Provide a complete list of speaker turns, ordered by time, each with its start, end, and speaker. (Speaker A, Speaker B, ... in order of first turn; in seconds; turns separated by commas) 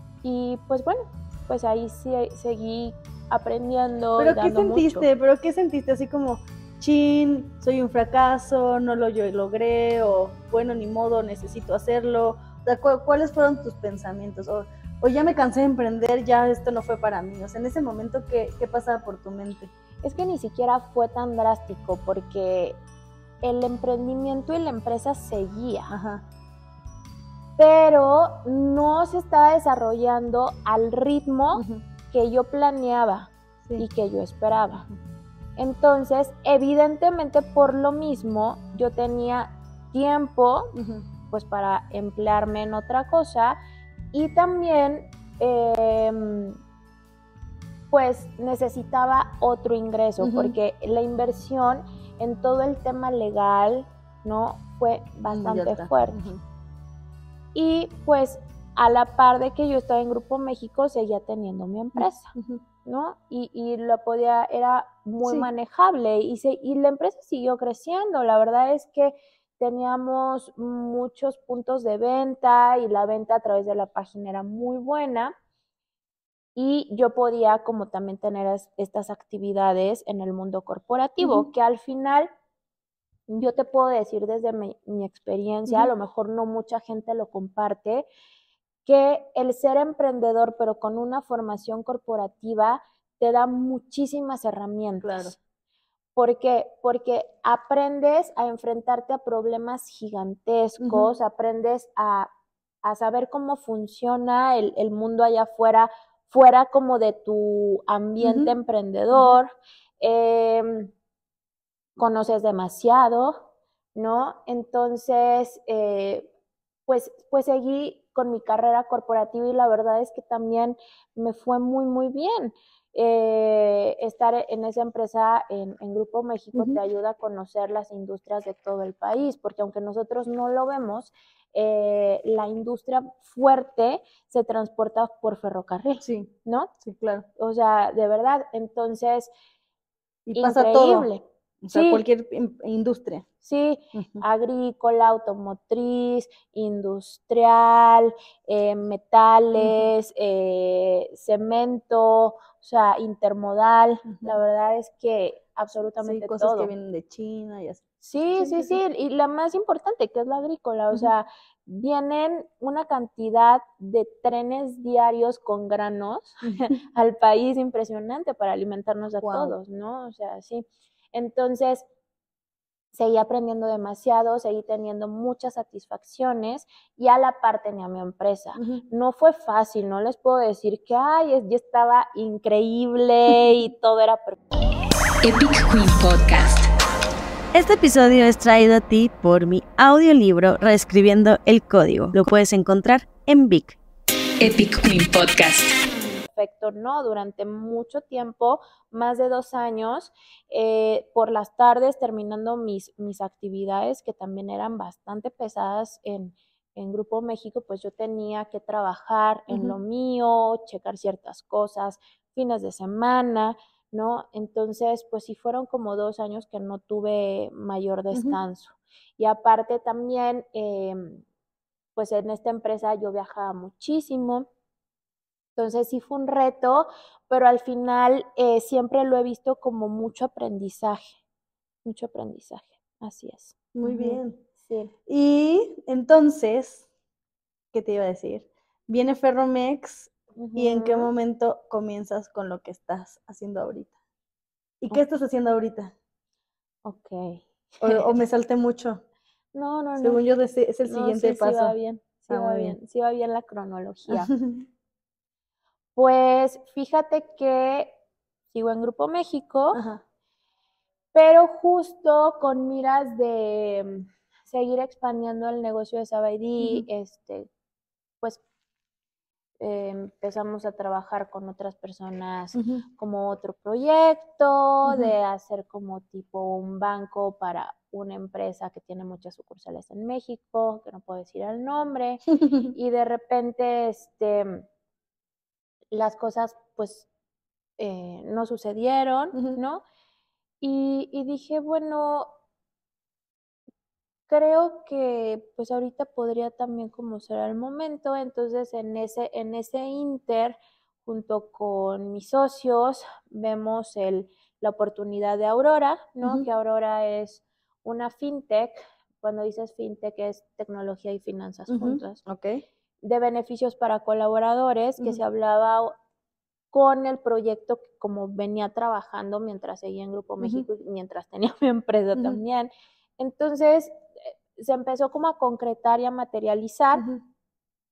Speaker A: 0.2-5.1, Speaker B: 4.2-19.7, Speaker A: 20.0-22.8, Speaker A: 23.4-25.9, Speaker B: 25.9-26.2, Speaker A: 27.6-34.9, Speaker B: 31.5-31.8, Speaker A: 35.6-40.7, Speaker B: 40.8-41.1, Speaker A: 41.3-43.6, Speaker A: 44.1-46.6, Speaker A: 47.9-56.2, Speaker B: 50.2-50.6, Speaker B: 55.3-56.4, Speaker A: 57.5-62.3, Speaker B: 62.0-62.6, Speaker A: 62.9-75.3, Speaker A: 76.5-82.3, Speaker B: 81.2-81.5, Speaker A: 83.3-88.1, Speaker B: 85.7-85.9, Speaker A: 88.9-95.4, Speaker B: 95.0-95.3, Speaker A: 96.2-102.3, Speaker B: 100.8-101.1, Speaker A: 102.8-110.9, Speaker B: 108.2-108.5, Speaker A: 112.0-116.3, Speaker A: 116.9-136.7, Speaker B: 126.5-126.8, Speaker B: 136.0-137.3, Speaker A: 137.4-139.3, Speaker B: 140.3-141.1, Speaker A: 140.4-142.0, Speaker B: 141.6-143.3, Speaker A: 143.4-156.7, Speaker B: 143.9-144.2, Speaker B: 149.6-149.9, Speaker B: 154.1-154.4, Speaker B: 156.0-157.8, Speaker A: 158.0-171.9, Speaker B: 158.4-158.8, Speaker B: 169.2-169.5, Speaker A: 172.9-184.4, Speaker B: 178.6-178.8, Speaker C: 185.2-186.7, Speaker D: 187.5-193.8, Speaker C: 194.4-195.7, Speaker A: 196.2-221.2, Speaker B: 209.5-209.8, Speaker B: 218.1-218.4, Speaker A: 222.0-224.5, Speaker A: 225.6-231.2, Speaker A: 231.8-234.9, Speaker B: 233.8-234.4, Speaker B: 235.1-236.9, Speaker B: 237.7-243.9, Speaker A: 240.4-241.1, Speaker B: 244.8-245.9, Speaker A: 246.8-248.1, Speaker B: 247.8-249.0, Speaker A: 249.5-250.2, Speaker B: 250.0-251.8, Speaker A: 250.8-254.3, Speaker B: 252.3-252.8, Speaker B: 254.1-254.7, Speaker A: 256.0-258.0, Speaker A: 258.5-259.8, Speaker B: 259.7-260.0, Speaker A: 261.1-267.5, Speaker B: 266.6-266.9, Speaker A: 269.6-284.6, Speaker B: 272.6-272.8, Speaker B: 274.9-275.1, Speaker B: 282.3-282.7, Speaker A: 285.9-287.1, Speaker A: 287.8-289.8, Speaker A: 290.6-292.3, Speaker A: 294.3-312.2, Speaker B: 306.2-306.5, Speaker B: 311.7-312.6, Speaker A: 313.0-315.9, Speaker A: 316.7-327.0, Speaker B: 320.4-320.7, Speaker B: 326.9-327.2